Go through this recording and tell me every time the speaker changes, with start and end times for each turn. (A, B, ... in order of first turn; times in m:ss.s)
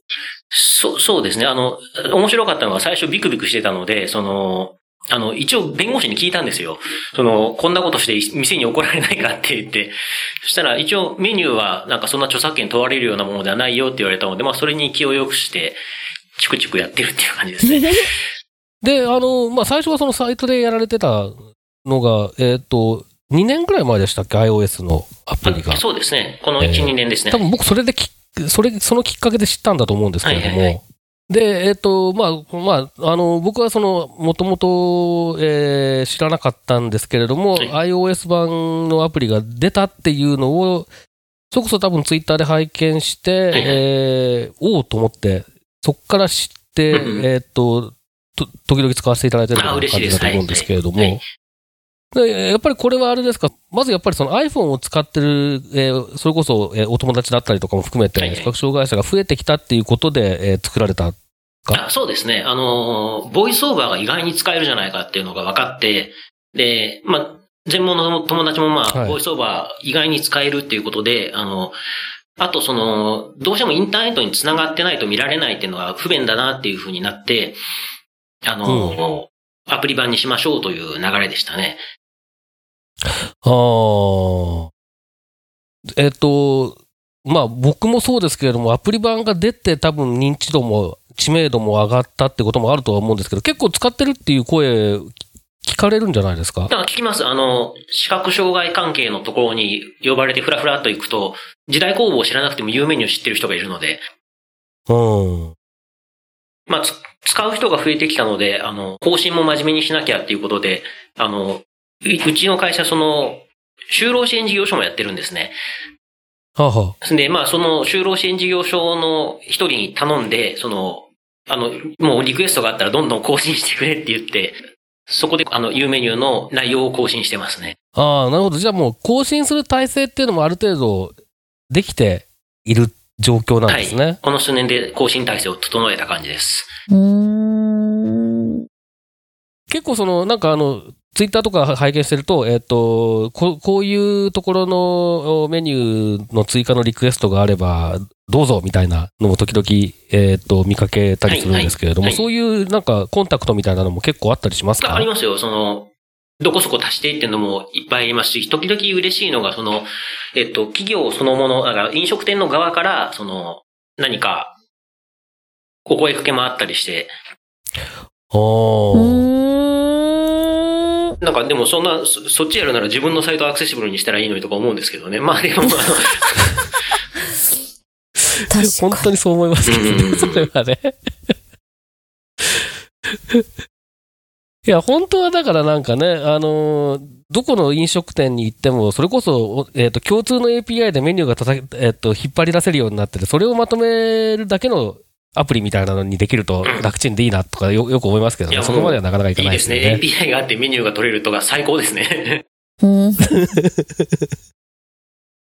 0:00.5-0:15.8 A
0:16.4-0:18.2 A
0:17.6-0:18.1 B
0:18.8-0:25.8 C
0:25.4-0:27.4 A
0:26.6-0:40.9 C
0:30.2-0:30.8 A
0:41.5-0:51.2 C
0:43.5-0:43.8 A
0:46.9-0:47.2 A
0:49.6-0:51.2 A
0:52.1-1:01.8 C
0:58.2-0:58.5 A
1:01.7-1:11.8 A
1:08.9-1:09.2 C
1:12.4-1:17.6 A
1:18.4-1:21.8 A
1:18.7-1:19.0 C
1:23.4-1:24.7 C
1:26.0-1:36.7 C
1:36.7-1:44.0 A
1:44.9-1:45.6 C
1:46.7-1:55.6 A
1:56.6-1:57.0 C
1:57.0-2:07.8 A
2:08.0-2:11.2 C
2:11.7-2:14.2 C
2:13.7-2:16.7 A
2:16.9-2:18.4 B
2:19.7-2:35.1 C
2:31.3-2:32.2 A
2:34.8-2:44.6 A
2:45.9-2:47.1 A
2:48.3-2:49.3 C
2:48.9-2:50.7 B
2:51.2-2:56.6 A
2:58.5-2:59.1 B
2:58.6-3:01.3 C
2:59.7-3:00.5 A
3:02.4-3:03.5 C
3:04.6-3:20.0 C
3:16.6-3:16.9 A
3:18.5-3:22.4 A
3:22.8-3:23.4 B
3:23.3-3:24.3 C